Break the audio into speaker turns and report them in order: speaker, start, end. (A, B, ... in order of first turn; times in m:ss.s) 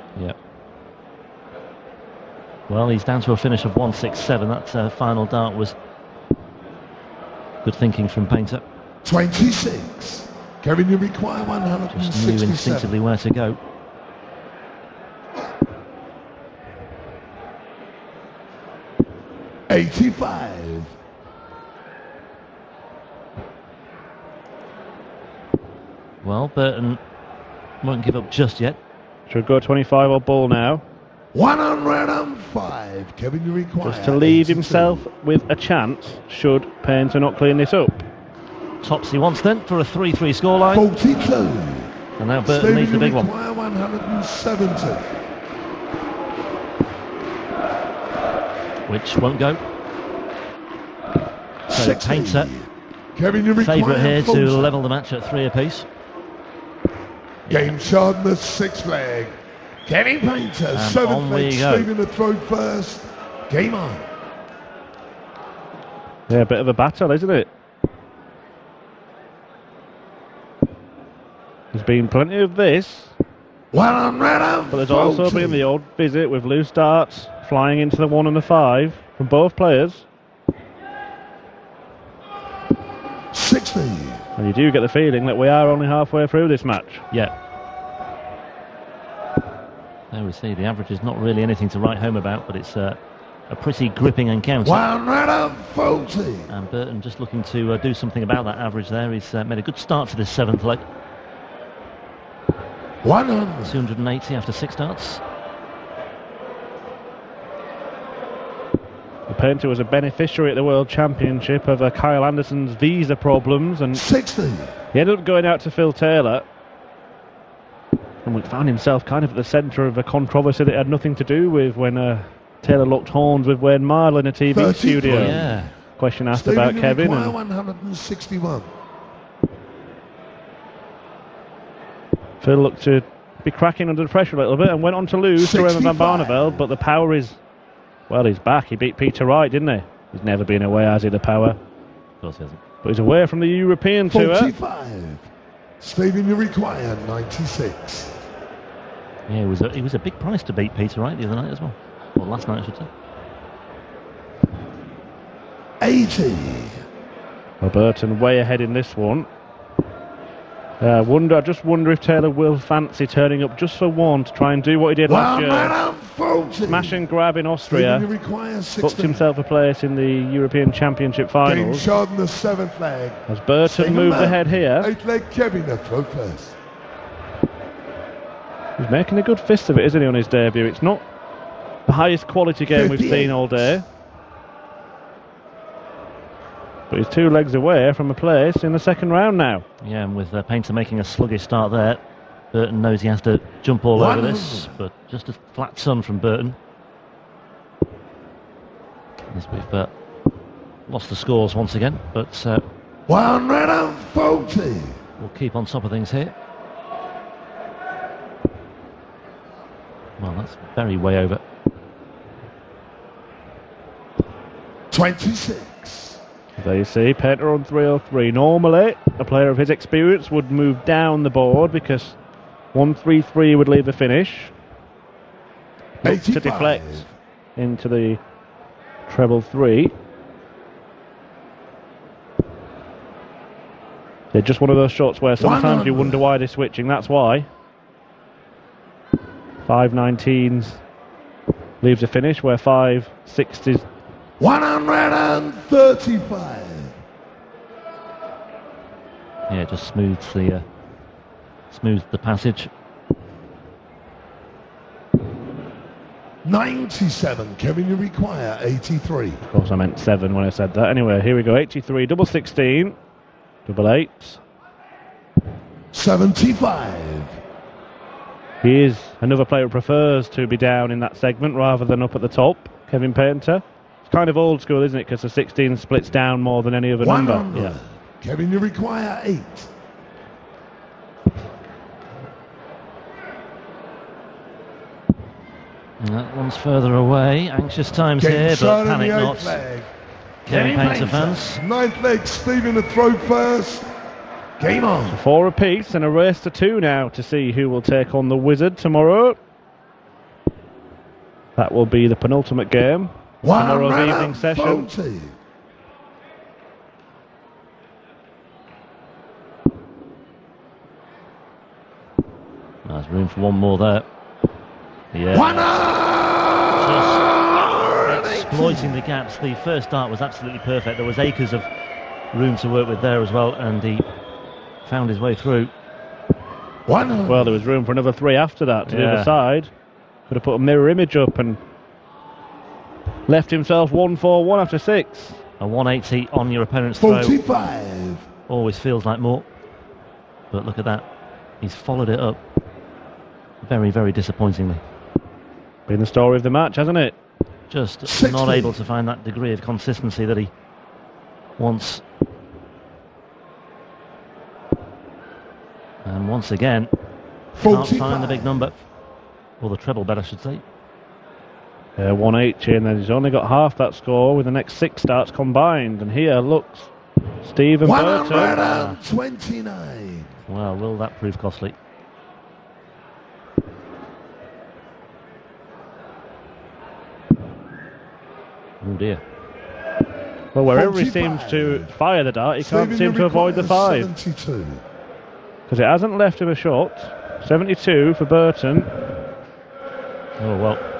0:02.7-0:05.7 A
0:07.6-0:08.6 A
0:09.0-0:12.9 B
0:11.9-0:13.6 A
0:19.7-0:20.9 B
0:26.2-0:27.0 A
0:27.8-0:28.8 A
0:29.3-0:30.8 C
0:31.3-0:35.0 B
0:33.8-0:38.0 C
0:38.8-0:40.8 A
0:40.7-0:41.9 B
0:42.2-0:43.3 A
0:42.4-0:45.1 B
0:48.9-0:49.6 A
0:51.7-0:54.7 B
0:51.7-0:52.5 A
0:53.6-0:55.9 A
0:57.4-0:57.7 A
0:57.5-1:04.1 B
1:00.7-1:01.9 A
1:06.3-1:07.5 C
1:11.7-1:13.1 C
1:13.7-1:15.6 B
1:14.7-1:20.0 C
1:23.3-1:24.2 B
1:24.4-1:27.1 C
1:30.1-1:33.0 A
1:33.5-1:34.8 A
1:34.6-1:36.5 B
1:36.5-1:40.8 A
1:43.0-1:43.8 B
1:43.6-1:45.2 A
1:49.3-1:54.0 C
1:53.9-1:54.7 B
1:54.9-1:56.4 C
1:58.2-2:05.4 C
2:04.5-2:05.6 B
2:05.0-2:05.7 A
2:06.0-2:07.4 C
2:06.3-2:08.7 B
2:12.4-2:17.4 C
2:15.4-2:16.6 B
2:18.1-2:21.6 C
2:22.2-2:22.6 A
2:22.8-2:24.5 C
2:24.1-2:25.3 B
2:25.8-2:28.1 B
2:29.3-2:32.9 A
2:35.8-2:36.8 B
2:37.6-2:39.3 C
2:40.8-2:45.8 C
2:45.0-2:47.0 B
2:46.7-2:48.1 C
2:47.7-2:49.2 B
2:48.8-2:51.9 C
2:51.4-2:56.6 B
2:53.3-2:54.9 C
2:58.8-3:01.0 C
3:01.9-3:03.8 C
3:02.7-3:03.8 B
3:06.9-3:09.6 C
3:09.8-3:12.0 A
3:12.5-3:16.6 A
3:13.9-3:14.7 B
3:19.3-3:19.9 A
3:20.9-3:22.7 A
3:23.1-3:25.0 B
3:25.2-3:26.3 A
3:30.2-3:31.4 A
3:34.9-3:36.2 B
3:36.6-3:42.2 C
3:42.7-3:44.5 C
3:46.0-3:48.2 C
3:46.0-3:47.1 B
3:49.1-3:49.9 C
3:54.3-3:57.5 C
3:55.4-3:56.2 B
3:59.6-4:00.8 C
4:01.8-4:03.9 C
4:04.4-4:07.0 B
4:09.5-4:10.6 A
4:11.7-4:12.7 A
4:16.4-4:19.4 B
4:19.5-4:23.0 C
4:23.6-4:24.4 C
4:25.9-4:27.4 B
4:28.6-4:37.4 C
4:37.0-4:39.7 B
4:37.5-4:37.8 A
4:46.0-4:49.6 A
4:48.2-4:49.9 B
4:50.4-4:51.6 A
4:50.4-4:53.9 B
4:54.6-4:55.2 B
4:55.1-4:59.4 C
5:01.6-5:04.9 C
5:03.4-5:05.4 B
5:12.8-5:14.0 A
5:15.1-5:15.7 A
5:15.3-5:19.0 B
5:16.8-5:17.3 A
5:18.0-5:21.7 A
5:22.3-5:24.1 A
5:24.8-5:25.7 A
5:26.8-5:27.6 B
5:27.3-5:29.7 C
5:28.9-5:29.3 A
5:30.3-5:31.6 C
5:33.3-5:35.4 C
5:35.6-5:37.4 A
5:37.0-5:38.3 B
5:38.5-5:39.4 A
5:40.5-5:41.0 A
5:41.6-5:42.4 A
5:43.6-5:44.8 A
5:45.9-5:47.2 C
5:47.7-5:50.5 A
5:48.0-5:48.8 B
5:51.6-5:52.0 A
5:56.0-5:56.9 A
5:57.6-5:58.7 B
5:57.6-5:58.7 A
5:59.6-6:00.6 A
6:02.0-6:08.6 C
6:07.8-6:10.3 B
6:08.5-6:09.0 A
6:10.5-6:11.8 A
6:18.8-6:19.2 A
6:20.5-6:24.1 C
6:20.7-6:21.9 B
6:22.6-6:24.8 B
6:25.7-6:28.9 C
6:30.4-6:30.8 A